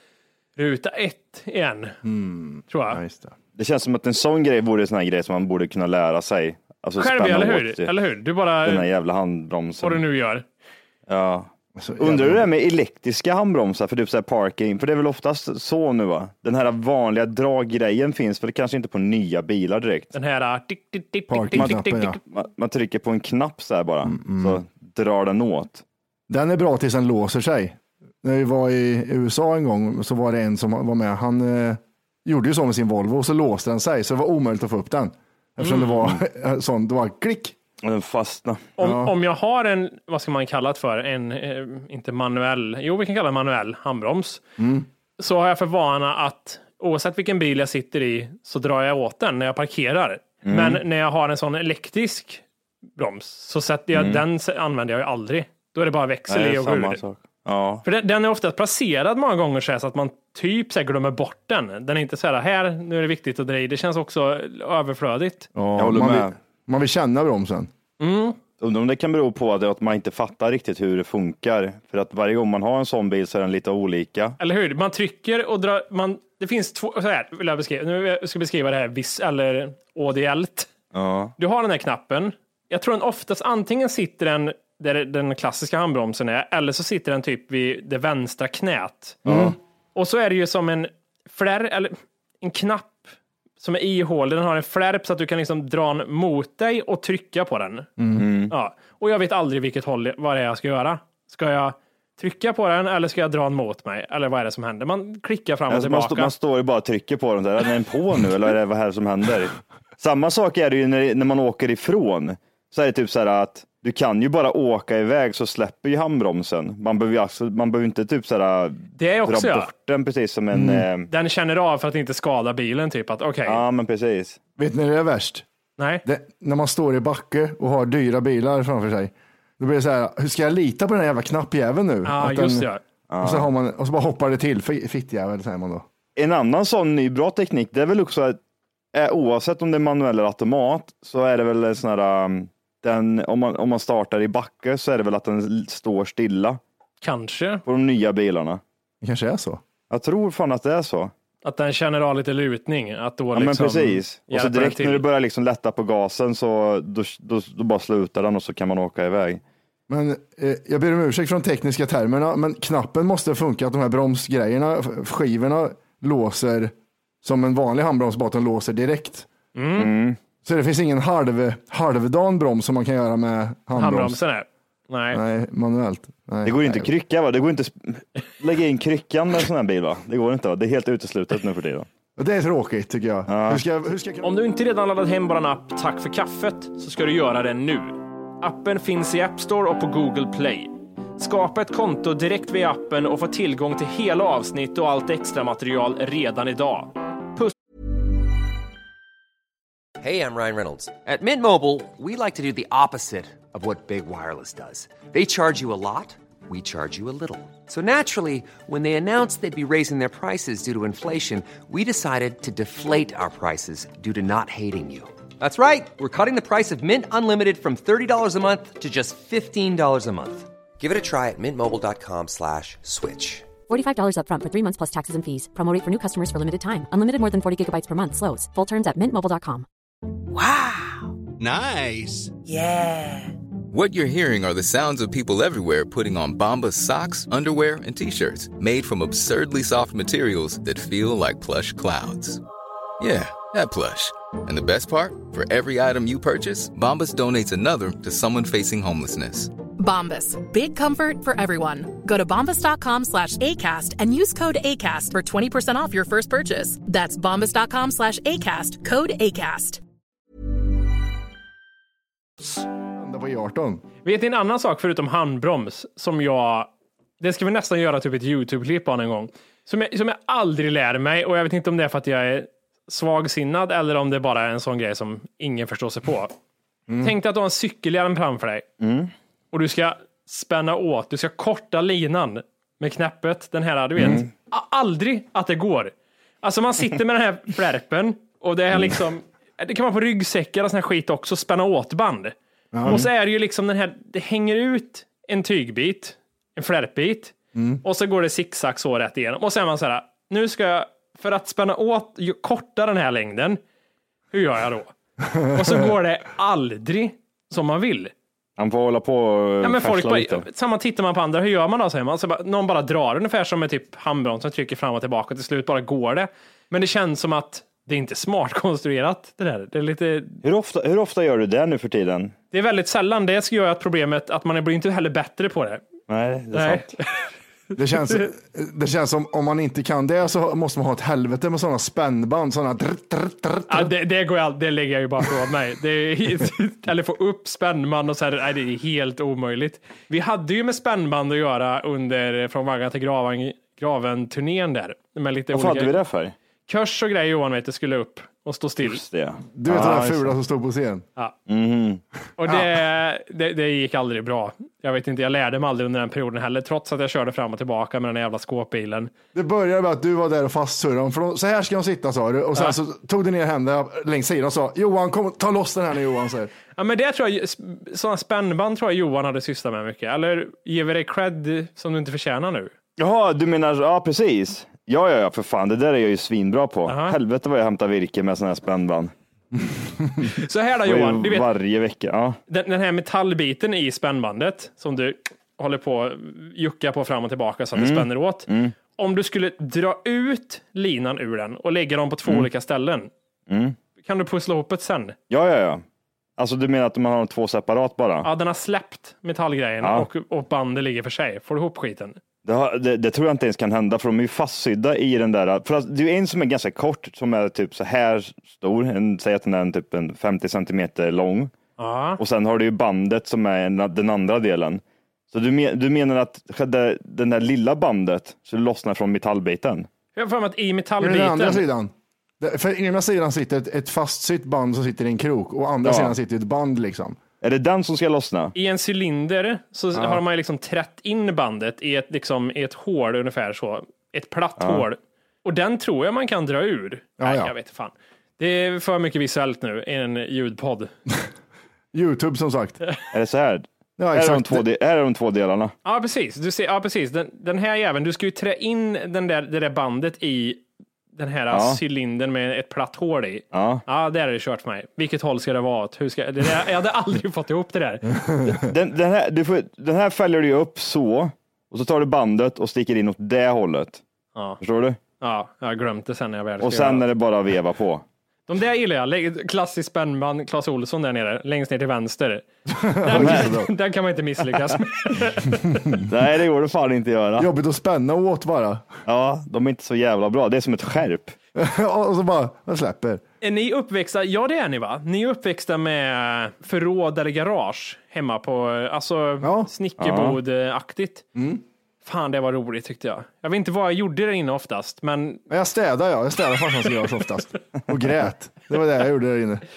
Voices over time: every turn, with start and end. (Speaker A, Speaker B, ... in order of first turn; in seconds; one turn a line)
Speaker A: 0.6-2.0
Speaker B: 2.0-3.3
Speaker A: 2.7-3.0
Speaker C: 3.5-7.9
Speaker A: 7.0-8.9
Speaker C: 8.6-10.0
Speaker A: 9.8-10.5
Speaker C: 11.1-20.1
Speaker B: 11.8-12.5
Speaker A: 20.1-22.2
Speaker B: 21.3-22.2
Speaker C: 21.5-25.8
Speaker B: 24.0-24.6
Speaker B: 26.3-37.5
Speaker A: 35.6-36.0
Speaker C: 37.8-38.7
Speaker A: 38.8-44.4
Speaker B: 38.8-39.1
Speaker B: 44.6-44.9
Speaker A: 45.2-52.4
Speaker C: 50.4-50.8
Speaker A: 53.0-57.0
Speaker C: 53.9-54.2
Speaker C: 56.3-57.8
Speaker A: 57.8-65.5
Speaker B: 65.5-67.7
Speaker C: 65.8-66.3
Speaker A: 68.0-68.4
Speaker C: 68.6-74.4
Speaker A: 74.4-80.7
Speaker C: 80.9-81.3
Speaker A: 81.4-89.2
Speaker B: 89.2-89.5
Speaker C: 89.2-89.5
Speaker A: 89.9-97.9
Speaker B: 98.0-98.2
Speaker C: 98.2-98.5
Speaker A: 98.5-106.3
Speaker C: 105.7-121.1
Speaker A: 119.0-119.7
Speaker B: 120.5-120.8
Speaker A: 121.1-123.6
Speaker C: 123.4-124.4
Speaker B: 124.6-125.5
Speaker A: 125.8-126.0
Speaker B: 126.0-132.7
Speaker A: 132.0-132.8
Speaker C: 133.1-133.5
Speaker B: 133.2-135.8
Speaker C: 136.2-138.4
Speaker C: 138.9-146.6
Speaker A: 147.0-147.6
Speaker C: 147.7-148.6
Speaker B: 149.0-149.6
Speaker C: 149.9-151.1
Speaker A: 151.4-155.0
Speaker C: 153.3-159.4
Speaker B: 159.9-169.3
Speaker A: 169.5-169.9
Speaker C: 169.8-170.2
Speaker B: 170.4-174.2
Speaker A: 173.8-175.2
Speaker B: 175.1-176.9
Speaker C: 176.4-181.9
Speaker B: 182.2-184.3
Speaker C: 183.3-183.6
Speaker A: 184.2-197.5
Speaker D: 200.0-223.5
Speaker E: 223.7-229.7
Speaker F: 233.7-242.4
Speaker F: 243.0-249.5
Speaker G: 249.8-259.8
Speaker B: 262.6-263.8
Speaker A: 264.0-276.3
Speaker B: 276.9-277.1
Speaker A: 277.0-278.6
Speaker C: 278.8-279.1
Speaker A: 279.5-292.3
Speaker C: 284.0-284.3
Speaker B: 292.7-293.0
Speaker A: 292.8-303.6
Speaker B: 297.5-297.8
Speaker A: 304.3-304.9
Speaker B: 305.2-305.9
Speaker A: 305.4-308.1
Speaker C: 308.6-310.4
Speaker A: 309.6-320.4
Speaker C: 320.4-322.3
Speaker A: 322.5-325.8
Speaker C: 326.1-326.9
Speaker A: 326.5-327.3
Speaker B: 327.8-333.9
Speaker A: 333.7-346.0
Speaker C: 345.5-346.3
Speaker A: 346.7-349.0
Speaker C: 348.8-350.3
Speaker B: 349.5-351.1
Speaker C: 351.5-352.0
Speaker A: 352.4-359.1
Speaker B: 359.3-366.5
Speaker A: 366.8-372.7
Speaker C: 373.0-379.1
Speaker A: 376.9-377.1
Speaker A: 380.3-381.5
Speaker C: 380.8-382.4
Speaker A: 382.5-393.1
Speaker C: 387.8-388.7
Speaker C: 393.5-393.8
Speaker A: 394.0-395.1
Speaker C: 395.3-395.8
Speaker C: 396.4-398.3
Speaker A: 398.2-402.2
Speaker C: 399.8-400.1
Speaker C: 402.4-411.5
Speaker A: 411.8-412.2
Speaker C: 412.2-419.9
Speaker A: 420.1-421.6
Speaker B: 421.0-427.2
Speaker C: 425.8-426.1
Speaker C: 427.4-428.5
Speaker A: 428.5-440.9
Speaker B: 429.9-430.2
Speaker C: 434.6-434.8
Speaker B: 437.2-437.5
Speaker B: 441.9-442.8
Speaker C: 443.1-445.7
Speaker B: 444.0-444.6
Speaker A: 445.8-450.6
Speaker A: 451.1-458.2
Speaker C: 451.5-451.8
Speaker C: 453.5-453.8
Speaker B: 458.3-458.6
Speaker C: 458.6-464.0
Speaker A: 464.3-464.6
Speaker C: 464.6-465.0
Speaker A: 465.2-467.1
Speaker C: 466.6-468.0
Speaker A: 468.5-472.4
Speaker B: 472.7-473.7
Speaker A: 473.0-475.9
Speaker C: 473.1-473.7
Speaker C: 476.1-477.5
Speaker B: 477.4-478.9
Speaker C: 479.1-481.3
Speaker B: 481.5-483.2
Speaker A: 483.4-491.2
Speaker B: 489.4-489.7
Speaker C: 490.0-490.4
Speaker B: 491.3-491.6
Speaker A: 492.0-495.4
Speaker B: 495.5-499.6